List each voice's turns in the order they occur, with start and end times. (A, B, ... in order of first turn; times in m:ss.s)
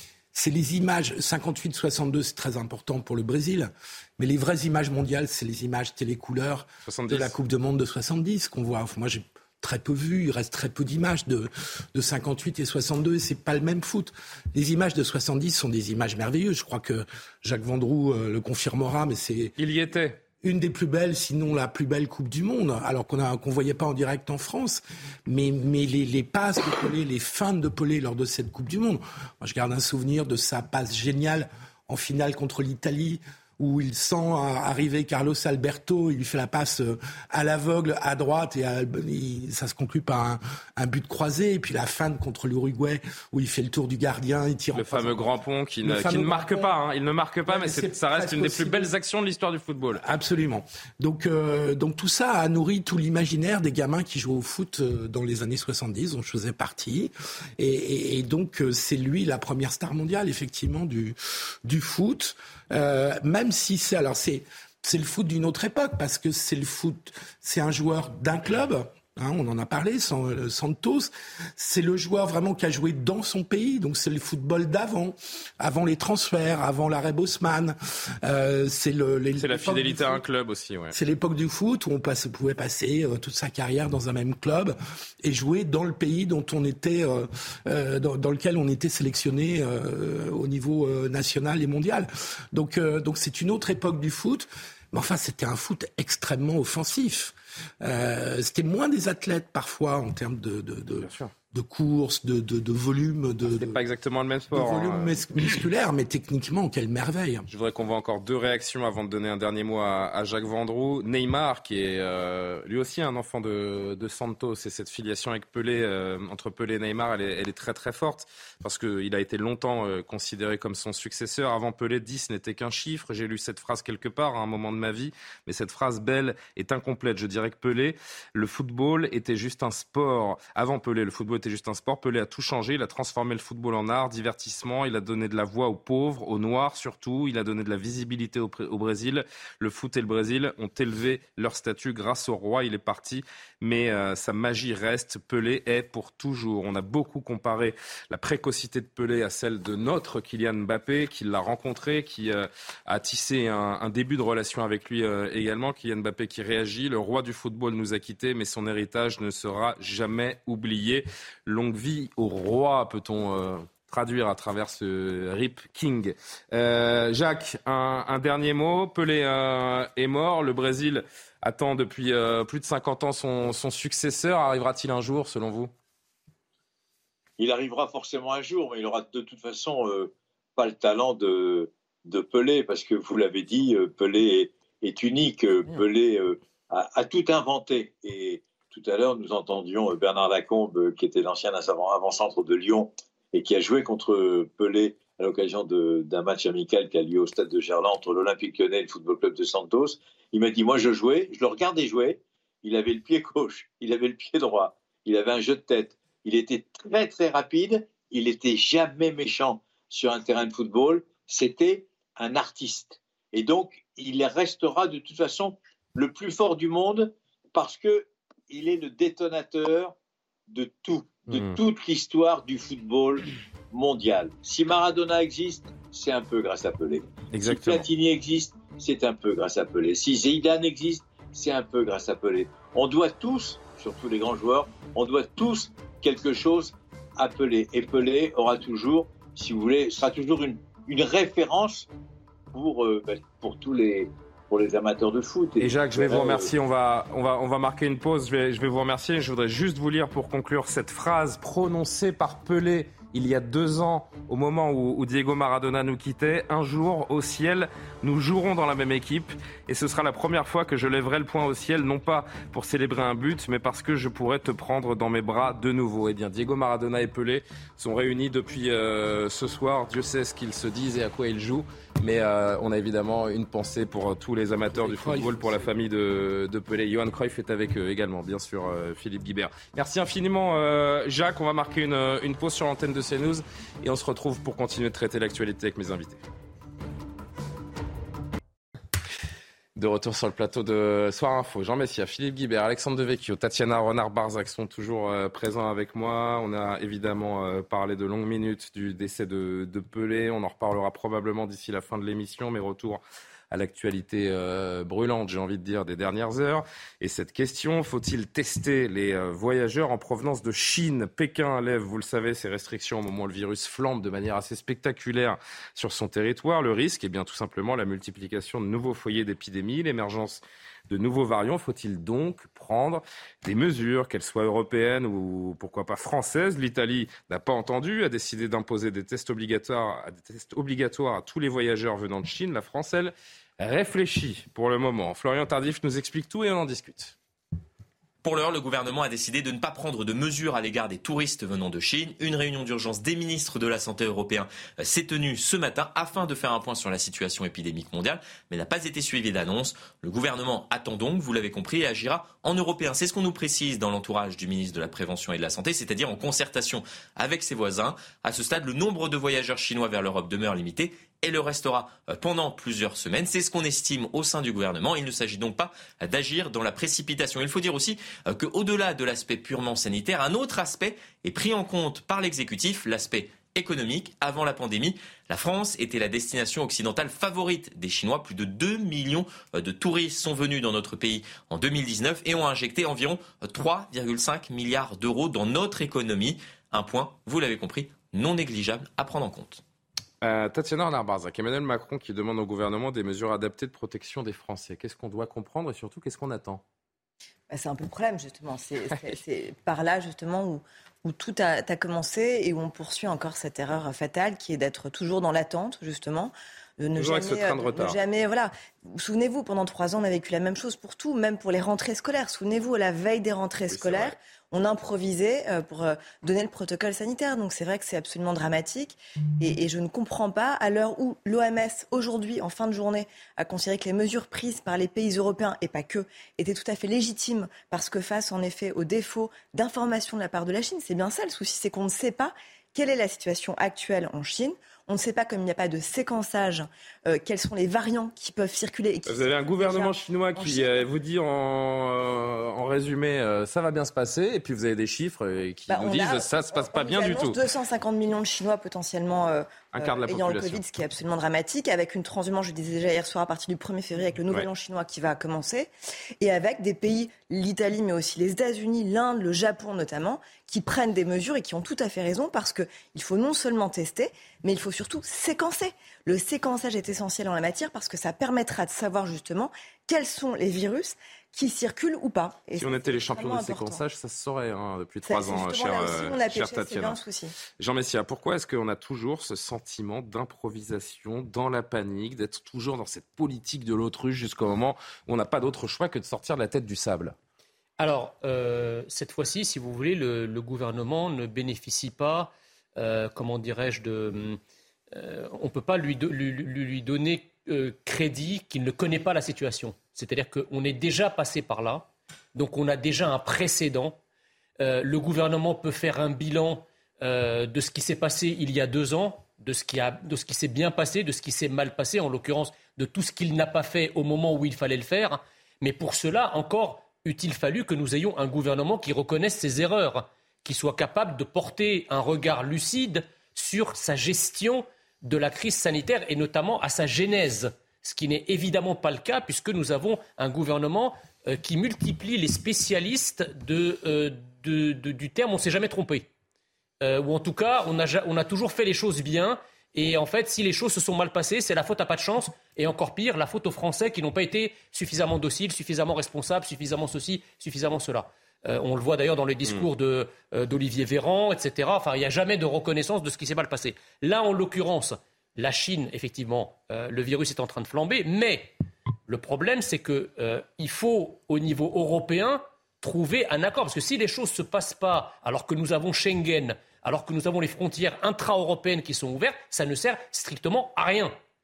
0:00.3-0:19.5 A
0:06.9-0:07.3 B
0:19.6-0:20.2 B
0:20.4-0:45.3 A
0:44.8-0:50.1 B
0:45.8-0:46.8 A
0:47.5-0:48.9 A
0:49.9-1:20.2 A
1:19.4-1:21.0 B
1:20.9-1:43.8 A
1:41.0-1:41.3 B
1:43.5-1:45.2 B
1:44.5-1:47.5 A
1:47.5-2:55.7 B
2:57.4-3:40.0 C
3:40.5-4:01.9 C
3:41.3-3:41.6 B
3:47.3-3:47.9 B
4:02.5-4:06.5 C
4:05.6-4:46.2 B
4:34.7-4:35.6 A
4:49.8-5:37.2 B
5:38.2-6:29.6 D
6:30.2-6:36.6 B
6:37.5-7:20.9 E
6:47.0-6:48.0 B
6:53.7-6:54.2 B
7:19.1-7:27.4 B
7:25.7-7:53.8 E
7:29.7-7:30.6 B
7:52.6-7:57.0 B
7:55.1-7:57.4 E
7:57.6-8:07.2 B
8:07.8-8:14.4 F
8:14.9-8:24.0 F
8:24.6-8:56.1 F
8:56.8-9:18.5 F
9:19.1-9:31.2 F